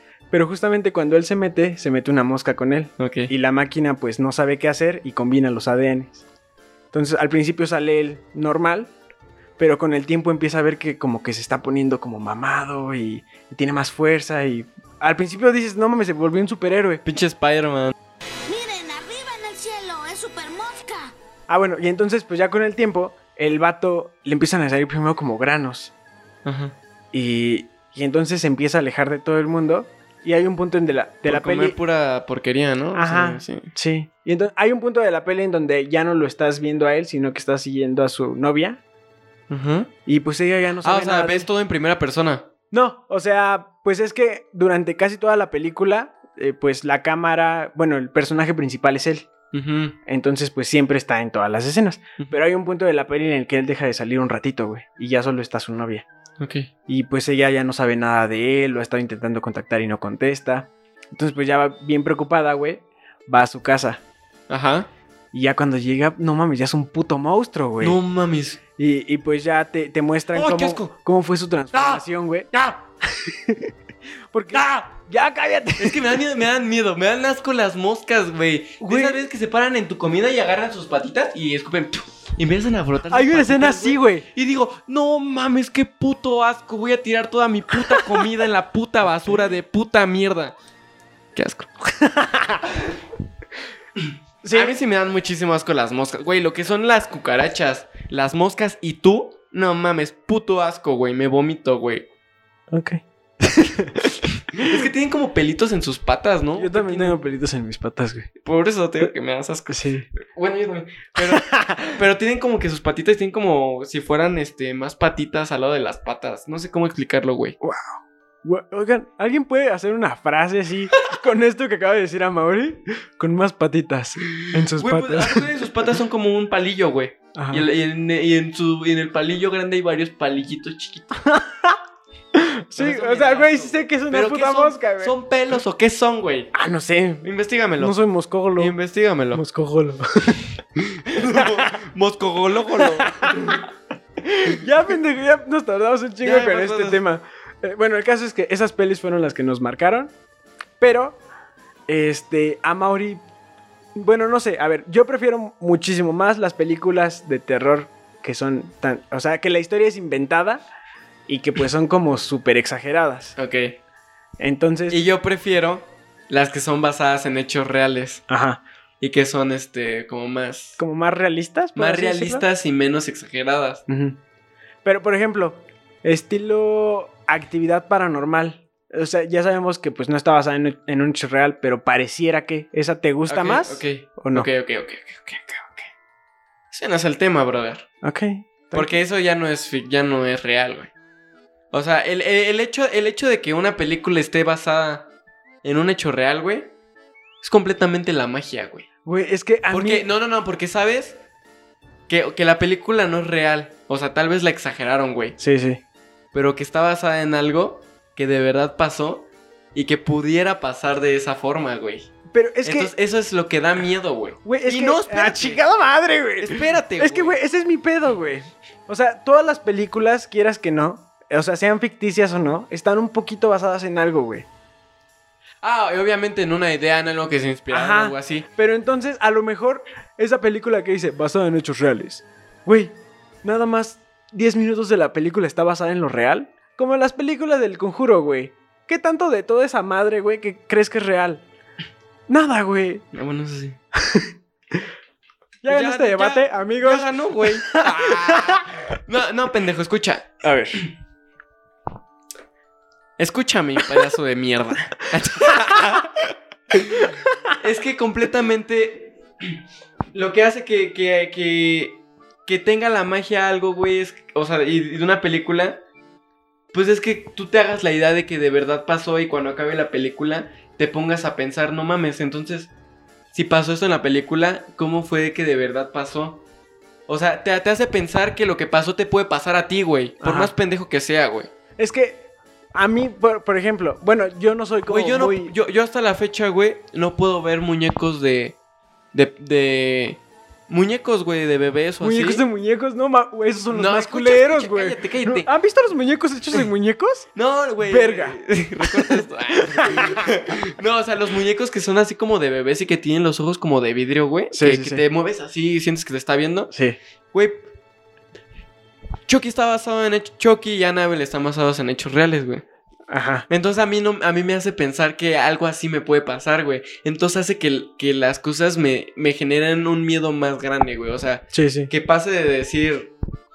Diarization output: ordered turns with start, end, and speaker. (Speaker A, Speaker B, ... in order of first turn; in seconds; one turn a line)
Speaker A: 0.3-6.2
Speaker B: 3.0-3.3
Speaker A: 6.9-8.9
Speaker A: 9.6-17.0
Speaker B: 17.0-17.9
Speaker C: 18.5-21.1
Speaker A: 21.5-25.9
Speaker B: 26.4-26.8
Speaker A: 27.1-31.8
Speaker B: 31.2-33.7
Speaker A: 32.9-38.8
Speaker B: 39.5-39.9
Speaker A: 40.0-41.5
Speaker B: 40.8-42.5
Speaker A: 42.7-49.3
Speaker B: 49.5-49.9
Speaker A: 50.0-56.0
Speaker B: 56.4-56.7
Speaker A: 56.9-64.0
Speaker B: 64.5-64.9
Speaker A: 65.3-68.0
Speaker B: 67.8-68.6
Speaker A: 68.8-73.7
Speaker B: 70.3-70.9
Speaker B: 71.7-72.0
Speaker A: 74.3-76.2
Speaker B: 74.5-74.8
Speaker B: 75.8-90.5
Speaker A: 78.8-79.2
Speaker A: 83.1-84.3
Speaker A: 87.9-88.2
Speaker B: 91.3-91.7
Speaker A: 91.8-92.6
Speaker B: 94.0-102.1
Speaker A: 94.4-94.8
Speaker A: 102.7-104.0
Speaker B: 104.5-107.2
Speaker A: 106.5-108.3
Speaker B: 108.4-117.6
Speaker A: 109.7-110.1
Speaker A: 111.2-112.0
Speaker A: 117.6-125.6
Speaker B: 124.3-131.2
Speaker A: 127.3-127.6
Speaker A: 131.2-131.8
Speaker A: 132.3-135.1
Speaker B: 132.8-136.5
Speaker A: 136.5-137.3
Speaker B: 137.2-137.9
Speaker A: 137.8-138.7
Speaker B: 138.6-139.4
Speaker A: 139.3-140.4
Speaker B: 140.8-143.6
Speaker A: 141.3-141.7
Speaker A: 142.8-143.6
Speaker A: 144.2-150.1
Speaker B: 146.2-147.0
Speaker A: 150.8-151.2
Speaker A: 151.9-153.2
Speaker A: 153.9-160.6
Speaker A: 161.3-163.3
Speaker B: 163.3-163.8
Speaker A: 164.4-165.0
Speaker B: 164.9-168.2
Speaker A: 168.3-168.6
Speaker B: 169.0-170.8
Speaker A: 170.8-172.4
Speaker B: 171.8-173.8
Speaker A: 173.9-174.2
Speaker A: 174.8-184.5
Speaker B: 183.3-185.9
Speaker B: 186.7-187.8
Speaker A: 188.0-189.0
Speaker B: 188.7-190.9
Speaker B: 191.7-195.1
Speaker B: 195.6-196.7
Speaker B: 197.4-198.9
Speaker A: 199.0-200.1
Speaker B: 199.7-201.2
Speaker B: 202.1-205.4
Speaker A: 205.4-205.8
Speaker B: 206.3-212.1
Speaker A: 212.3-212.9
Speaker B: 212.6-215.6
Speaker A: 214.4-224.5
Speaker B: 216.4-217.4
Speaker B: 225.6-228.4
Speaker A: 227.7-241.4
Speaker A: 242.3-243.1
Speaker B: 243.1-243.8
Speaker A: 243.9-244.9
Speaker A: 245.6-248.7
Speaker B: 245.7-250.9
Speaker A: 250.4-250.8
Speaker B: 253.2-259.5
Speaker A: 255.4-256.0
Speaker A: 257.0-257.4
Speaker B: 260.1-265.8
Speaker B: 266.7-272.7
Speaker B: 273.3-276.4
Speaker B: 277.1-281.5
Speaker A: 280.2-280.5
Speaker A: 281.8-282.2
Speaker A: 282.7-285.5
Speaker B: 284.9-288.6
Speaker B: 289.1-292.4
Speaker A: 292.0-297.3
Speaker B: 293.7-295.5
Speaker B: 297.3-306.7
Speaker A: 297.8-300.2
Speaker A: 304.5-305.0
Speaker A: 306.7-307.0
Speaker B: 307.3-307.7
Speaker B: 309.3-312.6
Speaker A: 313.1-313.5
Speaker B: 313.5-323.1
Speaker A: 321.5-321.9